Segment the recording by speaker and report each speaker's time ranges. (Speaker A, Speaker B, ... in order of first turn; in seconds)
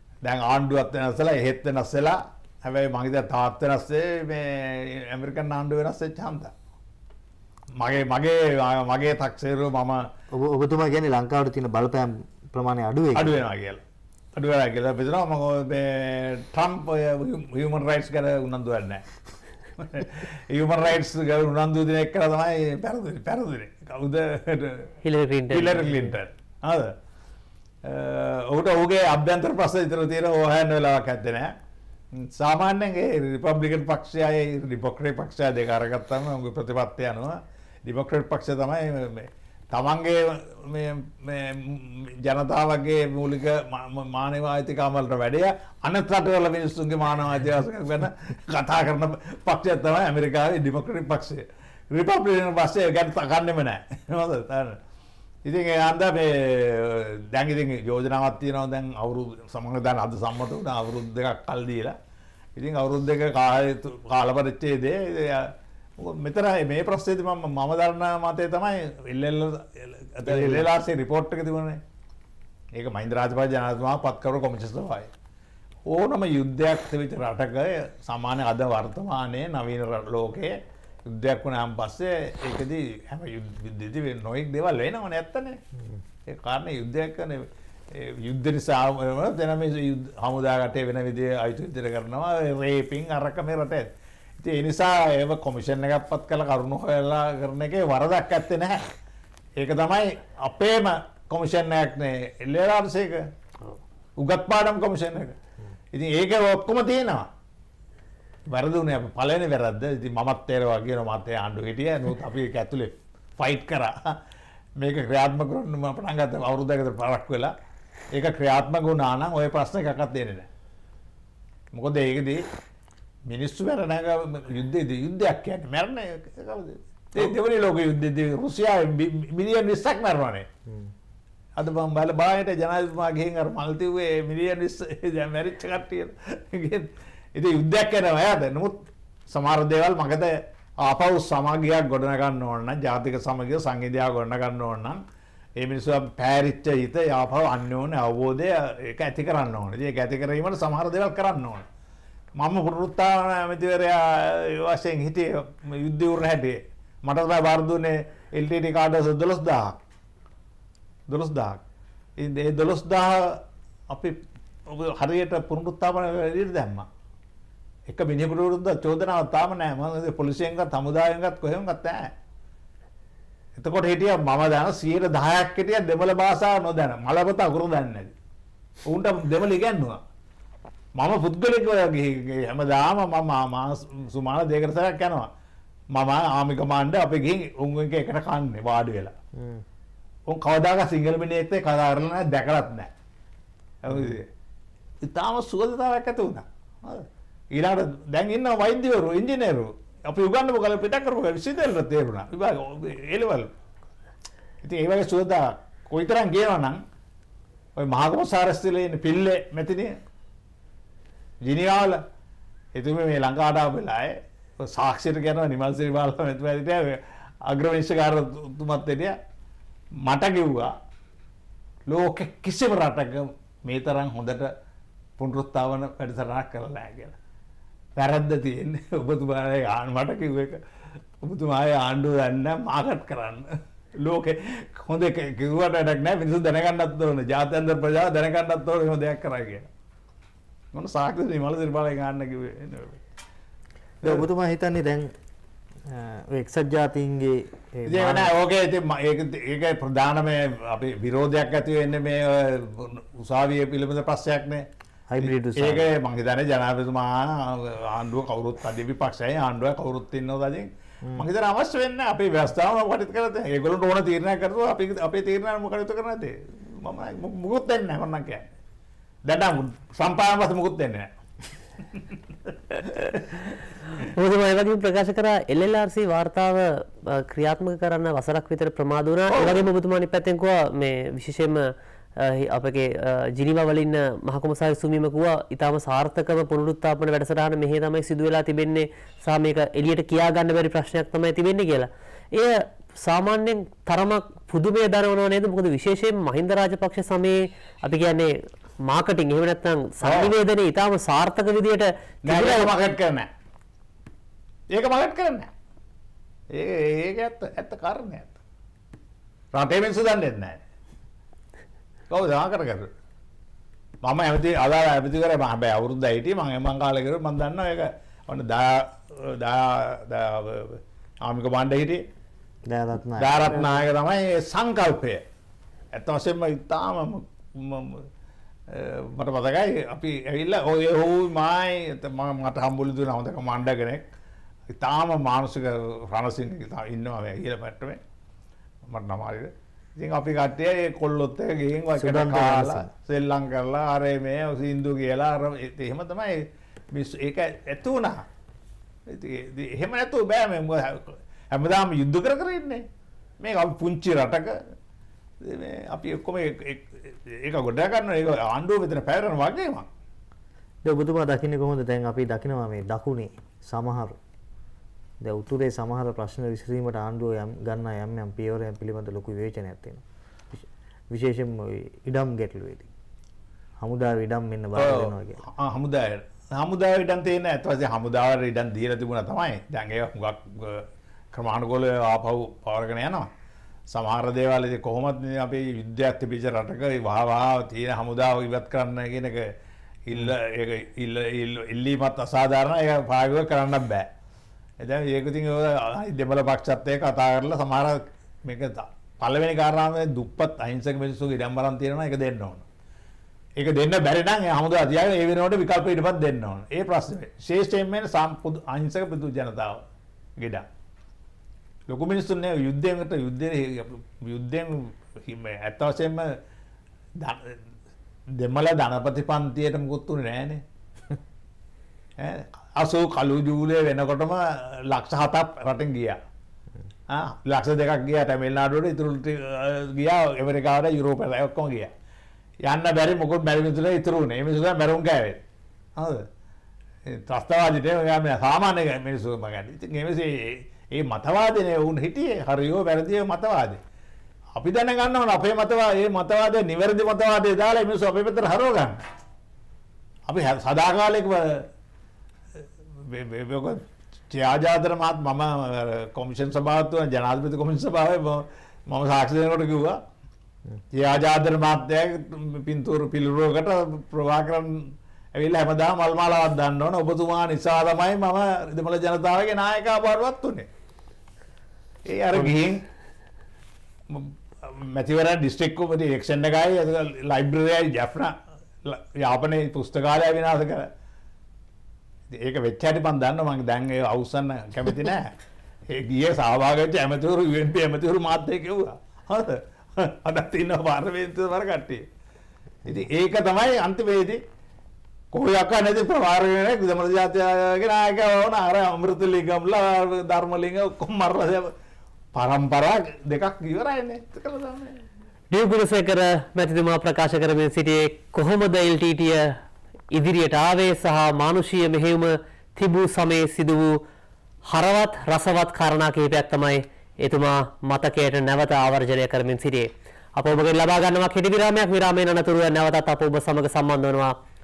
Speaker A: 0.2-6.5, 7.8-10.0, 13.2-13.8, 14.3-19.0, 19.8-24.9, 25.5-26.9, 27.8-31.5, 32.1-54.8, 55.5-62.0, 62.6-71.8, 72.8-75.1, 75.9-85.6, 86.3-93.9, 94.4-98.8, 99.6-103.3, 104.2-105.4, 105.9-107.3, 108.5-114.2, 114.8-117.5, 118.1-120.5, 121.7-122.5, 123.3-130.5, 131.6-145.0, 145.6-151.7, 152.4-159.8, 161.1-161.6, 162.2-166.9, 167.9-172.0, 173.6-178.1, 178.9-180.0, 180.9-185.3, 185.9-189.1, 190.3-192.9, 193.8-194.3, 195.0-203.5, 204.6-206.8, 207.8-209.9, 211.4-212.0, 212.8-219.2, 220.0-220.7, 221.9-224.5, 225.2-227.2, 228.0-230.6, 231.2-233.5, 234.0-239.7, 240.7-243.0, 247.9-254.7, 255.2-268.5, 269.2-271.1, 271.9-273.6, 279.4-279.6, 300.0-300.3, 302.2-303.3, 304.7-305.5, 306.5-308.4, 309.5-310.6, 312.1-312.9, 314.0-322.0, 323.2-325.2, 325.9-328.1, 328.7-334.0, 334.8-338.0, 338.9-348.2, 349.1-352.8, 353.4-354.6, 355.4-359.9, 374.8-383.3, 383.9-389.5, 390.1-394.1, 394.8-402.7, 403.6-409.9, 410.4-410.7, 411.9-416.4, 417.2-417.6, 418.4-420.6, 422.2-426.2, 427.1-431.9, 432.6-435.4, 436.0-436.2, 437.1-443.8, 444.5-449.0, 450.3-451.7, 453.0-460.0, 460.9-470.7, 472.1-472.9, 474.1-480.9, 482.3-485.3, 485.9-492.0, 492.9-494.4, 495.3-501.7, 502.3-505.0
Speaker B: 10.3-13.4, 70.2-70.7, 189.4-189.6, 193.9-194.2, 244.0-245.1, 245.9-248.3, 255.1-255.9, 322.7-323.9, 342.0-342.9, 360.8-364.2, 365.2-372.9, 373.8-375.4
Speaker C: 25.0-26.1, 274.0-302.7, 505.5-509.5, 510.1-514.0, 514.7-524.4